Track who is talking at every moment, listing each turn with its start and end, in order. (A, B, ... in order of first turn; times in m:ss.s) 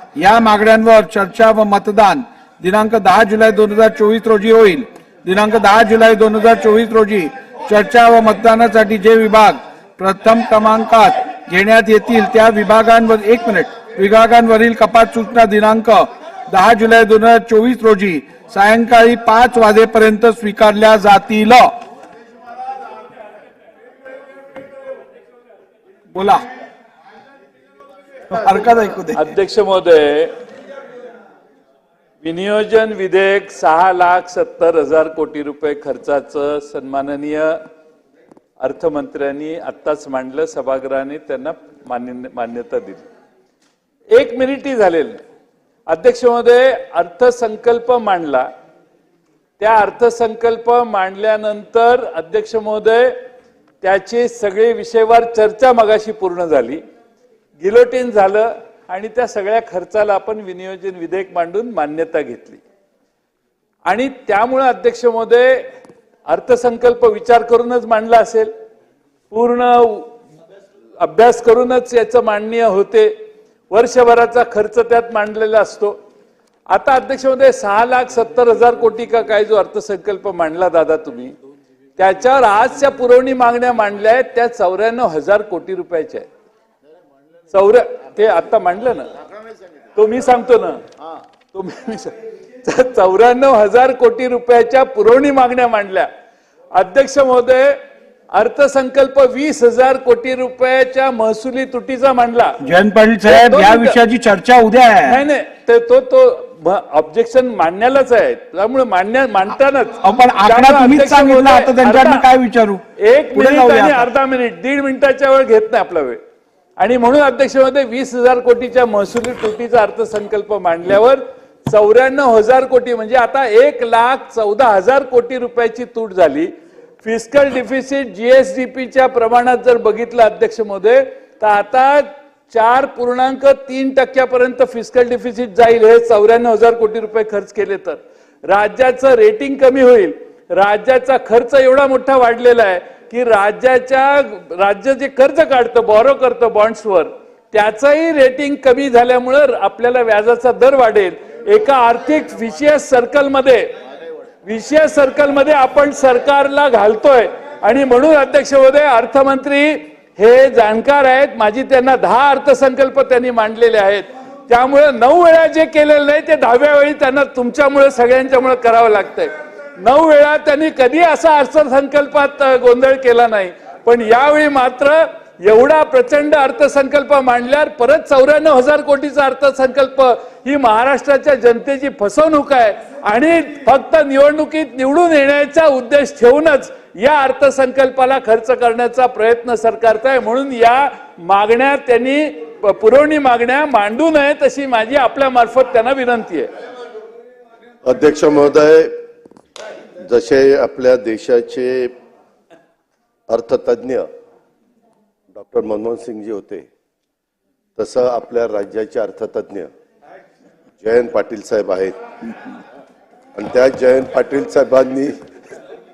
0:00.2-0:21.7 A
0:26.1-0:26.4 A
0:28.3-0:29.3 A
0:29.1-0:30.3 B
0:32.2-0:37.6 B
0:38.6-0:43.1 B
0:44.1-0:45.2 B
0:45.9-0:48.5 B
0:49.6-0:53.2 B
0:53.8-0:56.8 B
0:57.6-1:02.6 B
1:03.9-1:05.7 B
1:06.3-1:08.5 B
1:09.3-1:10.2 B
1:11.0-1:13.1 B
1:13.7-1:16.0 B
1:16.7-1:21.3 B
1:22.0-1:26.3 B
1:27.5-1:29.1 B
1:30.0-1:30.8 B
1:31.5-1:36.1 B
1:36.7-1:37.8 B
1:38.3-1:42.6 B
1:42.6-1:45.2 A
1:43.3-1:44.0 B
1:45.0-1:52.3 B
1:50.0-1:52.8 A
1:53.0-1:56.2 B
1:53.3-1:54.1 A
1:56.8-2:33.7 B
2:34.4-3:16.5 B
3:17.8-3:18.9 C
3:20.0-3:21.9 C
3:23.3-3:24.1 C
3:25.3-3:26.7 C
3:27.8-3:29.7 C
3:30.8-3:32.0 C
3:33.4-3:35.1 C